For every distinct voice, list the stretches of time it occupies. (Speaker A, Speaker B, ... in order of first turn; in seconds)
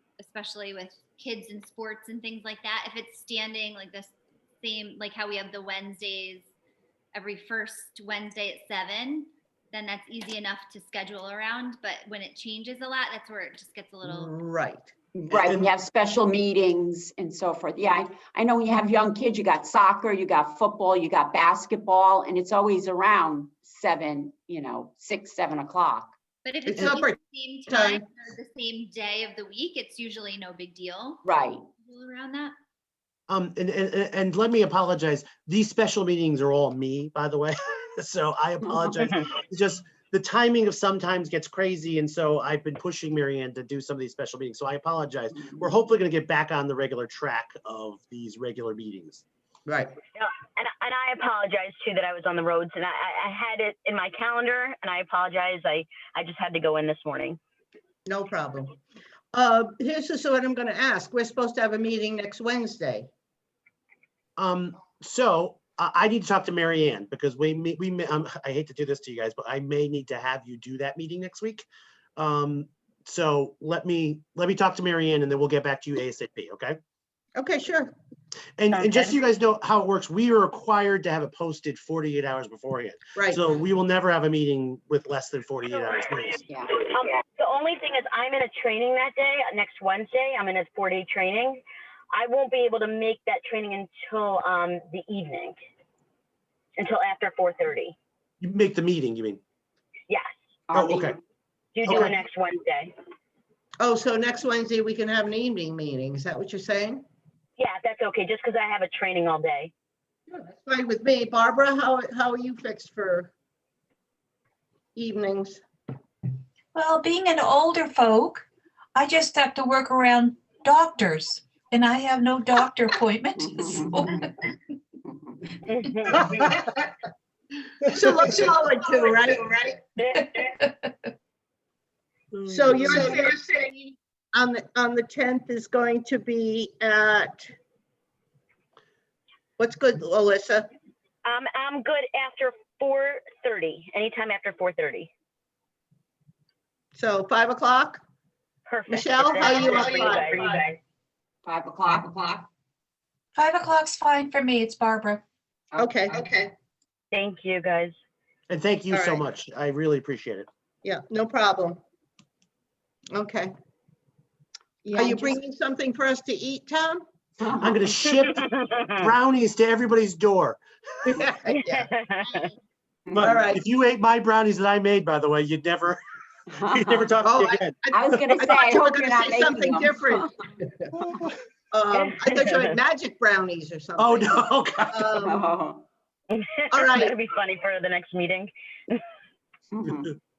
Speaker A: 0.2-6.5, 7.1-14.3, 26.4-31.3, 31.8-32.5
Speaker B: 14.0-14.9, 26.7-27.2, 27.7-28.0, 49.7-49.9, 58.1-58.8, 59.3-63.1, 77.3-77.9, 103.8-107.0, 110.3-113.3, 115.0-115.6, 127.9-129.8, 132.5-137.5, 139.6-140.7, 146.9-148.0, 148.9-150.6, 155.8-156.5, 158.9-159.2, 160.8-161.8, 163.1-163.5, 164.8-167.0, 171.1-172.5, 173.2-173.6, 177.2-180.9, 181.7-185.5, 186.7-187.2
Speaker C: 15.1-26.1, 31.2-31.6, 38.7-38.9, 86.5-86.8, 100.7-101.2, 123.4-124.5, 125.0-125.4, 151.4-152.5, 155.7-156.1, 167.4-167.8, 176.6-177.2, 177.9-180.3, 185.2-185.8, 189.7-190.2
Speaker D: 15.3-15.7, 33.3-49.2, 64.4-71.7, 72.2-76.8, 78.6-86.4, 98.4-99.4, 100.7-101.2, 101.8-102.2, 132.3-133.2, 158.5-160.5, 167.6-168.4, 169.0-170.6, 173.1-176.0, 176.6-178.3, 184.0-185.2
Speaker E: 50.1-57.4, 78.7-79.1, 86.7-95.6, 96.8-98.0, 101.8-102.9, 107.6-109.7, 125.7-126.6, 130.0-130.7, 141.2-145.1, 148.7-150.8, 157.1-157.9, 168.2-169.1, 171.5-172.5, 181.9-182.8, 186.3-189.1
Speaker F: 116.8-124.5, 153.4-155.2